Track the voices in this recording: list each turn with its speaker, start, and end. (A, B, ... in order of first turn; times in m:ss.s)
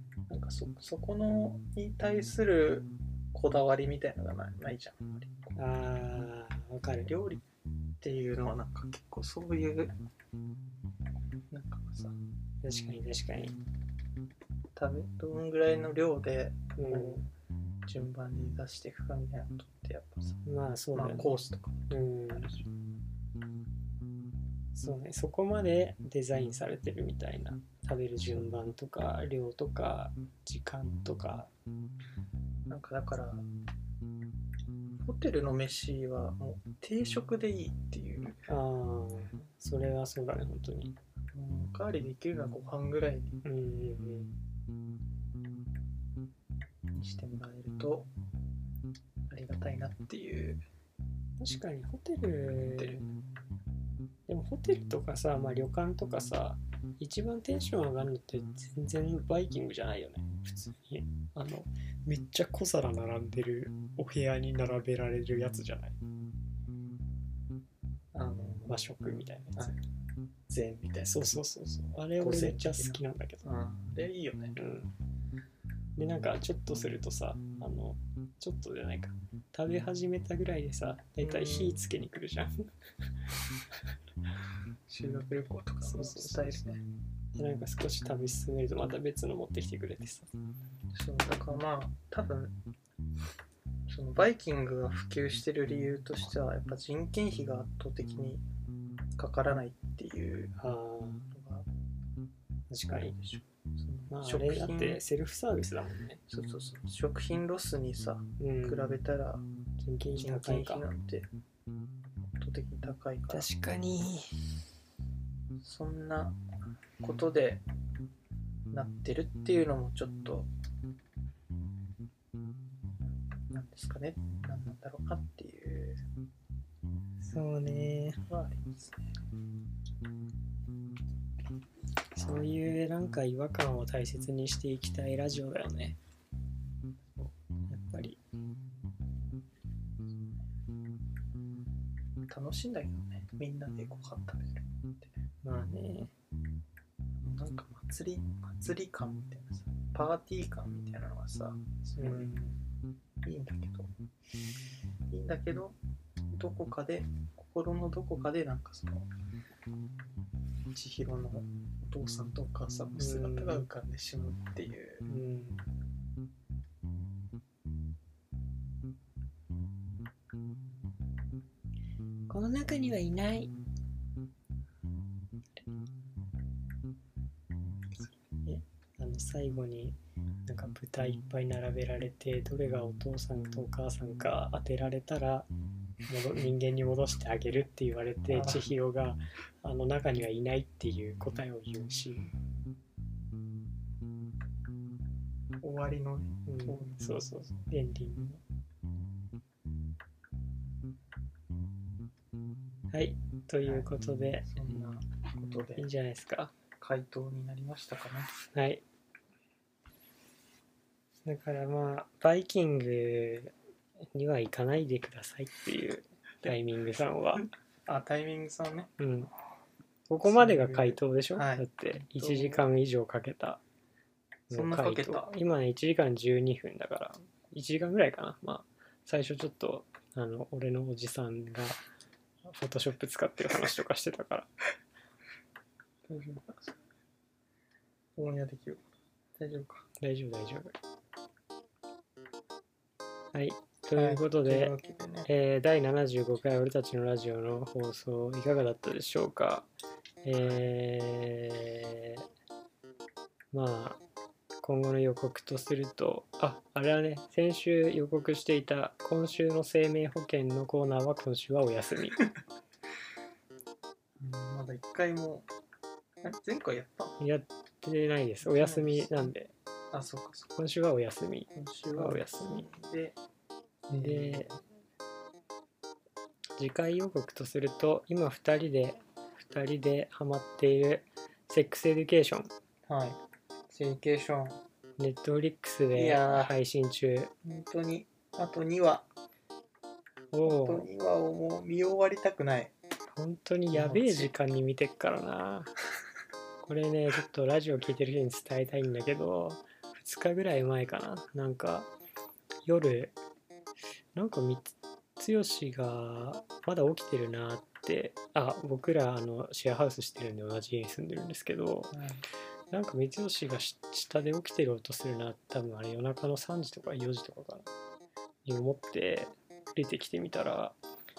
0:00.3-0:05.6 A
0:05.6-0:07.2 B
0:07.1-0:07.4 A
0:08.0-0:09.9 A
0:11.5-0:12.2 A
0:12.6-0:13.6 B
0:14.8-0:17.3 A
0:16.8-0:17.2 B
0:17.9-0:20.4 A
0:20.4-0:21.3 B
0:20.9-0:22.7 A
0:21.9-0:22.6 B
0:24.8-0:31.5 B
0:28.3-0:28.7 A
0:32.7-0:33.5 A
0:35.0-0:38.5 A
0:38.5-0:41.0 B
0:41.3-0:43.4 A
0:43.4-0:44.4 B
0:47.0-0:48.1 A
0:49.3-0:50.6 A
0:51.4-0:53.0 B
0:52.8-0:53.0 A
0:54.3-1:06.0 B
1:08.1-1:08.8 A
1:08.7-1:09.8 B
1:10.5-1:11.4 A
1:11.0-1:13.5 B
1:12.2-1:14.6 A
1:14.6-1:14.9 B
1:16.0-1:22.7 B
1:21.2-1:21.8 A
1:24.9-1:26.8 A
1:25.8-1:26.6 B
1:27.4-1:30.3 B
1:30.9-1:32.6 A
1:33.9-1:38.4 A
1:39.2-1:40.6 A
1:40.6-1:41.3 B
1:41.3-1:41.7 A
1:42.7-1:43.2 B
1:42.9-1:45.0 A
1:44.1-1:46.2 B
1:46.3-1:49.4 A
1:48.4-1:49.0 B
1:49.8-1:50.8 B
1:50.2-1:51.3 A
1:52.4-1:53.5 A
1:53.3-1:54.4 B
1:55.6-1:56.4 A
1:57.0-1:57.6 A
1:58.7-2:00.5 A
2:03.5-2:06.0 A
2:07.2-2:08.2 B
2:08.3-2:09.2 A
2:12.2-2:16.0 B
2:17.7-2:18.2 B
2:22.3-2:25.1 A
2:25.4-2:26.1 B
2:27.2-2:32.5 A
2:32.0-2:32.6 B
2:33.2-2:33.9 A
2:35.1-2:35.8 A
2:36.3-2:39.1 A
2:40.7-2:45.1 A
2:43.0-2:43.7 B
2:45.1-2:45.7 B
2:52.3-2:53.5 B
2:58.0-2:58.6 A
2:59.0-3:05.5 B
3:06.1-3:12.3 B
3:08.3-3:08.7 A
3:15.6-3:17.1 A
3:16.5-3:18.4 B
3:22.9-3:25.0 B
3:23.6-3:25.9 A
3:25.8-3:26.5 B
3:26.8-3:28.3 A
3:28.5-3:28.8 B
3:31.2-3:33.5 B
3:34.1-3:37.5 B
3:37.9-3:38.9 A
3:39.0-3:39.3 B
3:40.1-3:43.6 B
3:40.2-3:42.6 A
3:44.5-3:51.8 B
3:44.5-3:45.3 A
3:52.5-3:54.5 B
3:56.1-3:56.8 A
3:58.2-3:58.8 A
3:59.4-3:59.9 A
4:00.0-4:00.8 B
4:03.3-4:04.7 B
4:04.0-4:05.3 A
4:05.3-4:09.7 B
4:10.2-4:12.3 B
4:13.5-4:14.0 B
4:14.6-4:22.3 B
4:24.2-4:25.5 A
4:26.2-4:27.2 A
4:27.2-4:29.5 B
4:28.4-4:29.3 A
4:29.9-4:30.6 A
4:30.6-4:32.7 B
4:31.5-4:33.2 A
4:33.9-4:34.6 A
4:33.9-4:34.5 B
4:36.6-4:42.5 B
4:42.9-4:44.6 A
4:45.0-4:47.3 B
4:45.9-4:46.6 A
4:47.4-4:49.1 A
4:50.3-4:50.9 B
4:50.4-4:52.7 A
4:53.1-4:55.8 B
4:53.7-4:54.3 A
4:56.6-5:01.9 B
5:02.7-5:03.2 B
5:04.2-5:11.9 B
5:11.9-5:12.2 A
5:12.7-5:17.7 B
5:18.4-5:20.8 B